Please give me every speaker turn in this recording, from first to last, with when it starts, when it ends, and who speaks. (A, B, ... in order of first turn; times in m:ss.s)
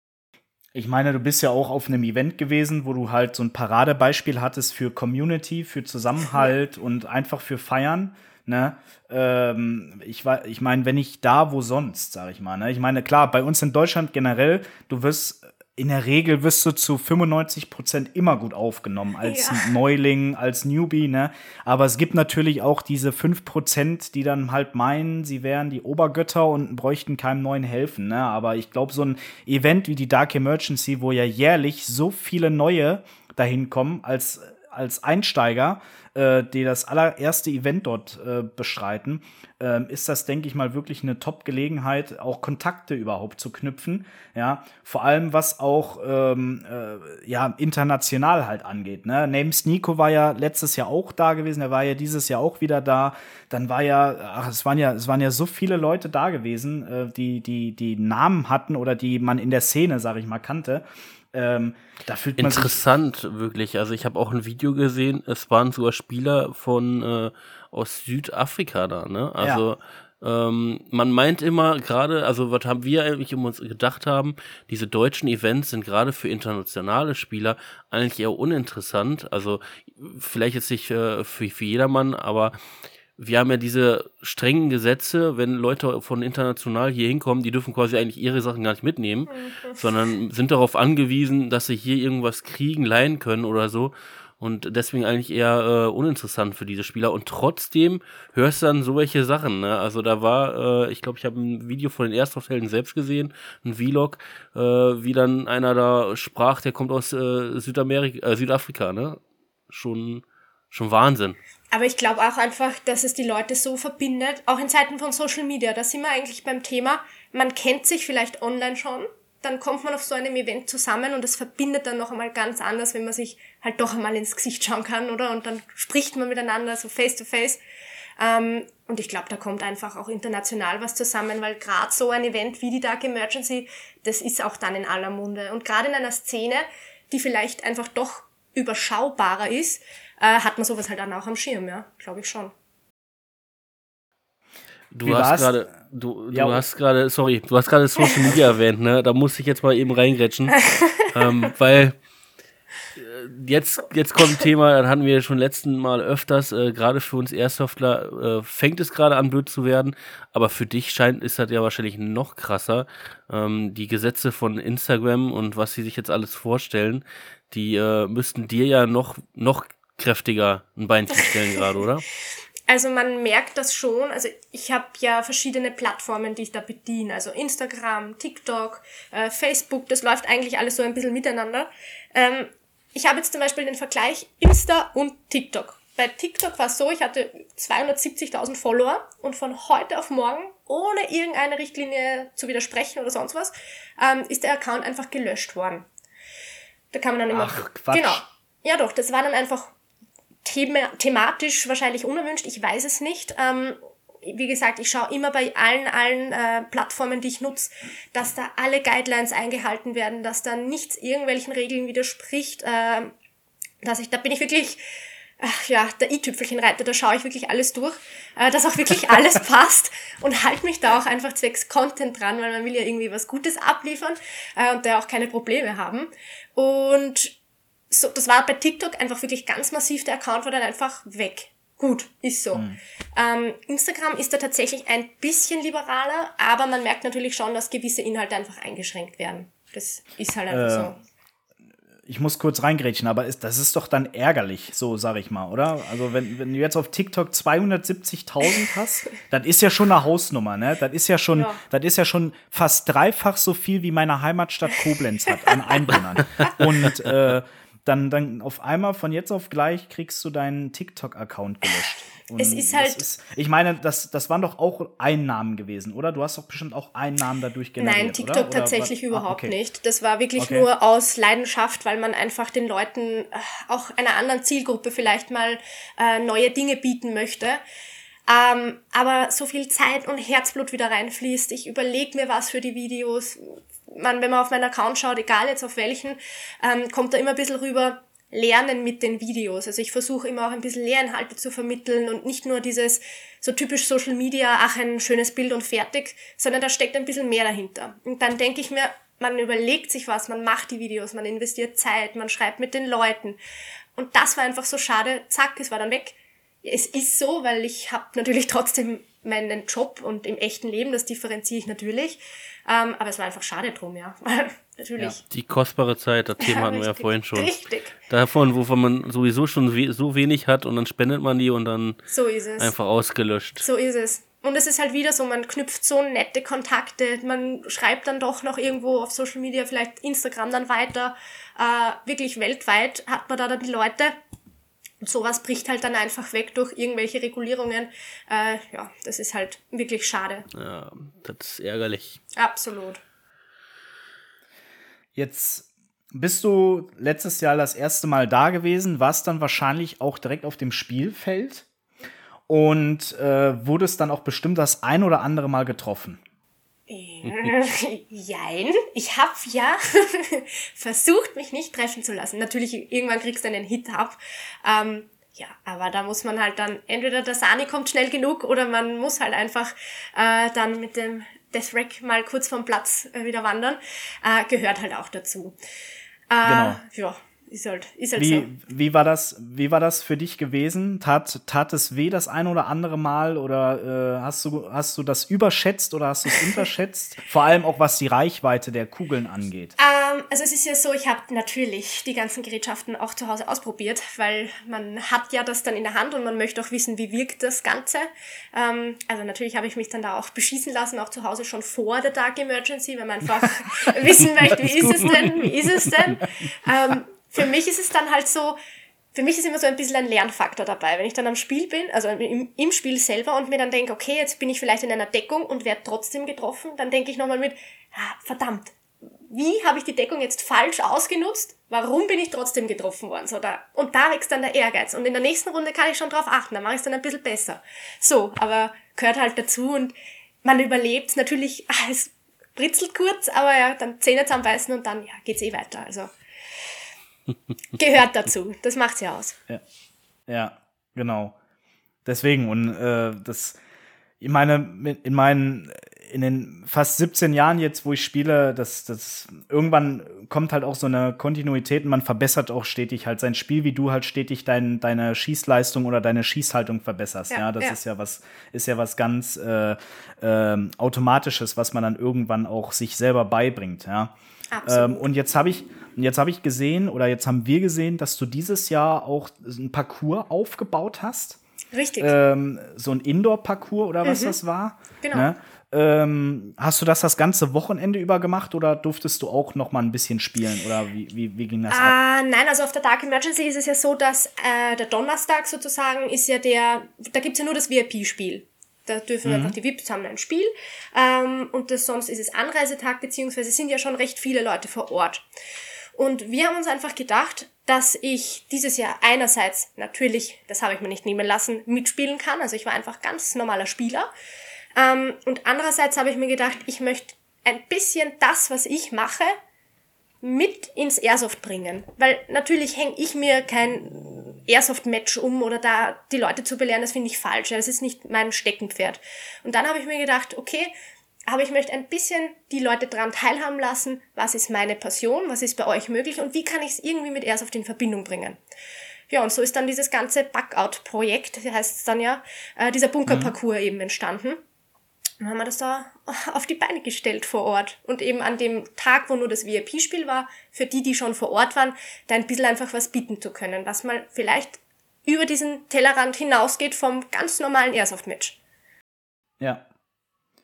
0:00.7-1:02.8 A
0:19.2-0:19.7 B
1:02.4-1:22.5 C
1:23.2-1:51.4 C
1:29.3-1:29.8 B
1:51.7-2:07.6 B
2:08.2-2:22.5 B
2:24.9-2:32.0 C
2:25.0-2:25.7 A
2:26.3-2:26.6 A
2:30.6-2:31.1 B
2:33.0-2:52.0 C
2:52.7-3:15.8 B
3:16.9-3:19.7 B
3:17.3-3:18.2 A
3:20.4-3:33.1 B
3:33.8-3:34.8 B
3:35.4-3:47.4 B
3:47.9-4:01.0 B
4:00.5-4:00.9 A
4:02.1-4:29.6 A
4:11.3-4:11.6 B
4:22.4-4:23.0 B
4:27.8-4:37.6 B
4:30.4-4:30.7 A
4:38.3-5:03.4 B
5:04.0-5:15.2 B
5:15.3-5:17.5 C
5:16.4-5:18.0 B
5:18.1-5:22.0 C
5:22.1-5:22.7 B
5:22.6-5:23.6 C
5:23.6-5:34.1 B
5:35.0-5:40.5 B
5:40.5-5:42.2 C
5:42.3-5:43.0 B
5:45.1-5:51.6 A
5:52.5-5:56.2 A
5:56.9-6:15.6 B
6:16.3-6:18.5 B
6:16.4-6:16.8 A
6:18.2-6:29.7 A
6:29.8-6:48.6 B
6:49.1-6:58.8 B
6:59.3-7:16.1 B
7:17.8-7:19.4 B
7:20.3-7:21.3 A
7:22.0-7:23.6 A
7:24.2-7:44.1 A
7:37.3-7:37.8 B
7:44.5-7:45.0 B
7:44.6-7:51.4 A
7:51.7-7:52.1 B
7:52.0-8:02.0 A
7:54.0-7:54.3 B
7:55.0-7:55.3 B
8:01.7-8:15.2 B
8:09.2-8:09.5 A
8:16.0-8:24.1 B
8:24.8-8:29.3 B
8:30.2-8:40.7 B
8:41.3-8:48.4 B
8:49.1-8:54.4 B
8:53.1-8:53.3 A
8:55.2-9:08.4 B